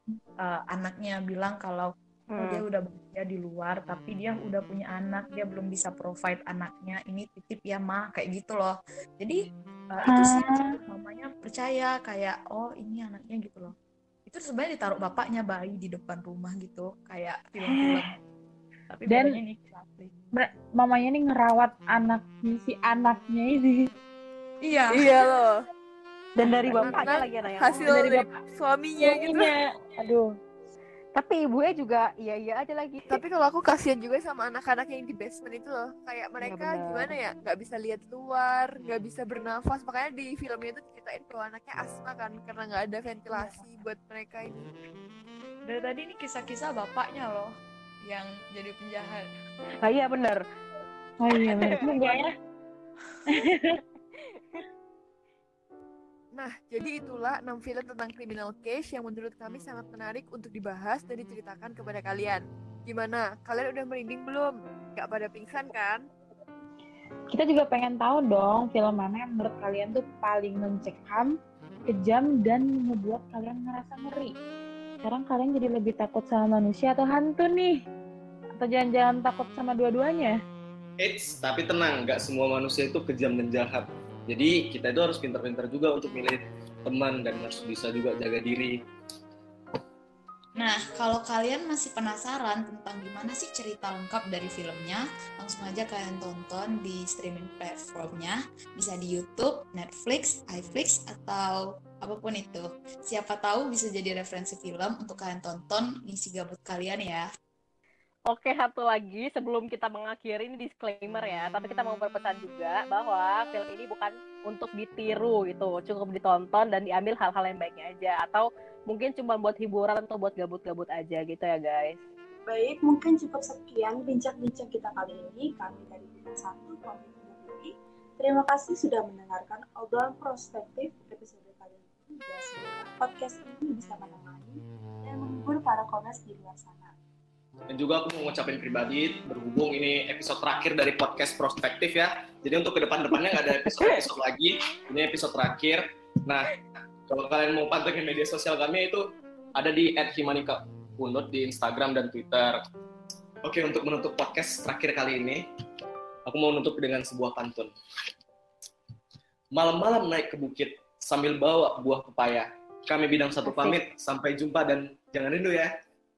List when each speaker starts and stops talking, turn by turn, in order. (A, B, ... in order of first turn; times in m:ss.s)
0:00.4-0:09.4 A
0:02.3-0:02.6 B
0:09.9-0:13.7 A
0:10.0-0:10.7 C
0:14.3-0:18.1 A
0:17.6-0:18.1 C
0:18.9-0:20.1 A
0:19.1-0:19.4 C
0:20.3-0:23.9 C
0:24.6-0:25.1 A
0:24.9-0:25.5 D
0:26.4-0:27.9 B
0:26.7-0:27.0 A
0:26.7-0:27.0 C
0:26.7-0:29.4 D
0:27.9-0:28.2 C
0:29.0-0:30.3 C
0:31.2-0:33.2 B
0:33.1-0:44.7 D
0:36.5-0:37.0 B
0:45.7-0:47.5 A
0:48.0-0:49.3 A
0:49.8-0:50.4 B
0:51.2-0:52.3 C
0:51.3-0:52.2 B
0:53.3-0:53.8 C
0:56.4-1:06.0 D
1:07.3-1:11.3 C
1:11.9-1:14.3 C
1:15.0-1:17.7 C
1:18.6-1:20.4 C
1:21.0-1:28.8 E
1:30.6-1:47.2 A
1:48.3-2:02.0 B
2:02.4-2:16.9 F
2:17.7-2:26.6 E
2:27.1-2:32.6 E
2:33.4-2:35.4 E
2:36.3-2:37.7 E
2:39.6-2:45.7 E
2:43.4-2:43.8 B